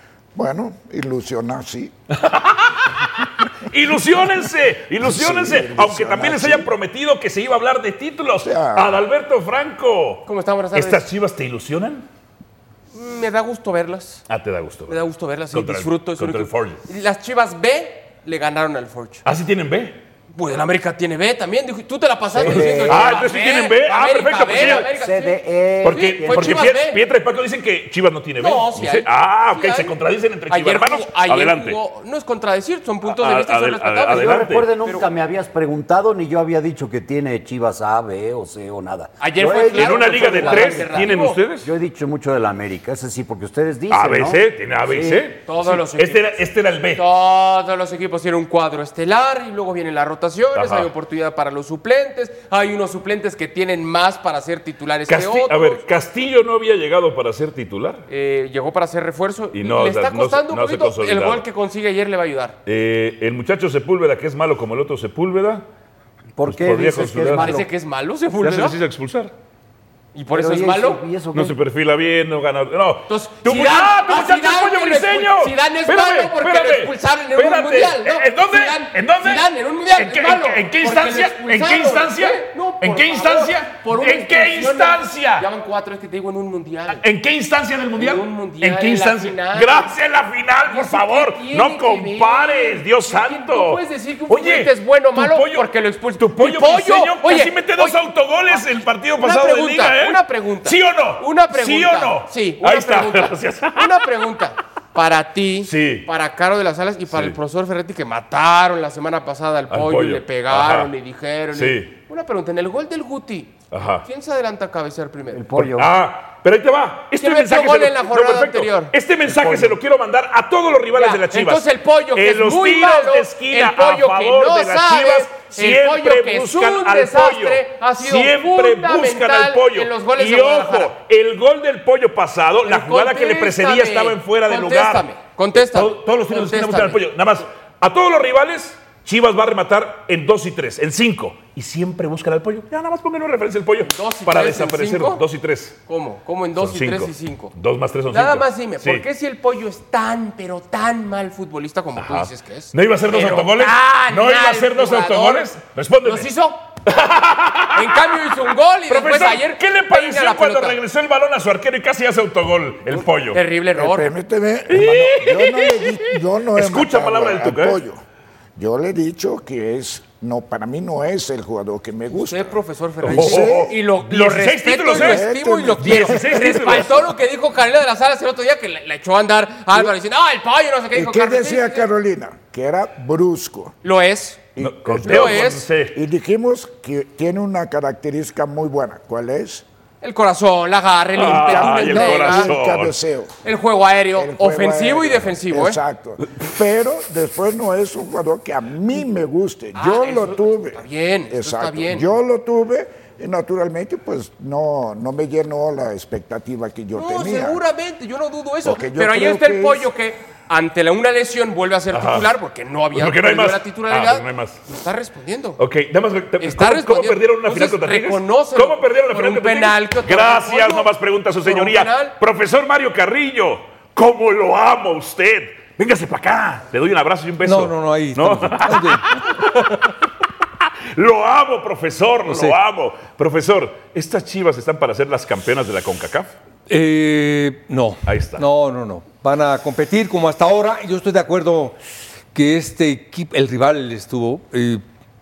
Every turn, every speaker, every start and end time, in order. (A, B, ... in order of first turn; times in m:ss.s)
0:00.4-0:01.9 A
0:02.1-0:12.1 B
0:05.0-0:06.7 A
0:08.4-0:09.0 A
0:10.3-0:11.1 C
0:12.9-0:14.2 C
0:14.3-0:16.8 B
0:14.9-0:19.2 C
0:19.2-0:20.0 B
0:20.3-0:27.0 C
0:22.3-0:23.2 D
0:22.4-0:24.9 B
0:24.5-0:26.8 D
0:25.8-0:31.8 B
0:28.4-0:29.9 C
0:30.5-0:35.1 C
0:33.0-0:34.7 B
0:34.1-0:45.3 D
0:39.2-0:41.4 C
0:39.7-0:41.7 B
0:43.9-0:47.0 B
0:45.5-0:46.4 C
0:46.9-0:55.8 C
0:50.6-0:50.9 B
0:55.1-0:58.1 B
0:58.1-1:02.6 C
0:59.5-1:01.4 B
1:02.7-1:05.6 B
1:06.4-1:07.7 D
1:06.5-1:07.5 B
1:07.4-1:08.8 C
1:08.4-1:09.3 B
1:10.1-1:11.0 C
1:10.3-1:11.6 D
1:11.3-1:25.5 B
1:13.1-1:27.0 C
1:26.9-1:35.7 B
1:28.0-1:29.9 C
1:30.7-1:55.4 C
1:36.3-1:44.1 B
1:45.6-1:46.1 B
1:47.1-1:47.4 B
1:49.7-1:50.9 B
1:51.5-1:51.9 B
1:53.7-1:54.0 B
1:55.3-1:55.9 D
1:55.5-2:15.1 B
1:57.2-1:58.9 C
1:59.3-1:59.8 D
2:00.9-2:10.9 C
2:12.7-2:17.0 C
2:15.7-2:25.8 B
2:23.9-2:25.2 C
2:25.9-2:27.5 C
2:26.6-2:29.0 B
2:28.1-2:35.5 C
2:32.0-2:36.3 B
2:36.0-2:36.6 C
2:36.9-2:38.4 B
2:37.7-2:40.8 C
2:38.9-2:43.4 B
2:42.9-2:44.1 C
2:43.8-2:48.0 A
2:44.7-2:47.8 B
2:48.6-2:53.7 A
2:52.1-3:01.9 C
2:53.0-2:55.3 B
2:54.9-2:56.8 A
2:55.8-2:57.1 B
3:00.9-3:03.7 A
3:03.8-3:04.4 C
3:04.6-3:09.6 A
3:04.6-3:06.0 B
3:05.0-3:05.6 C
3:10.0-3:12.6 C
3:11.2-3:13.0 B
3:11.3-3:13.4 A
3:13.4-3:15.8 C
3:14.2-3:27.6 A
3:19.8-3:22.1 C
3:27.0-3:35.6 C
3:28.6-3:29.9 A
3:31.9-3:32.4 B
3:32.9-3:34.6 B
3:35.6-3:49.9 B
3:36.4-3:40.9 C
3:41.4-3:42.1 C
3:47.4-3:49.1 E
3:50.9-3:56.3 B
3:52.3-3:52.6 E
3:56.7-4:01.8 E
3:58.1-3:58.5 B
4:02.3-4:04.8 E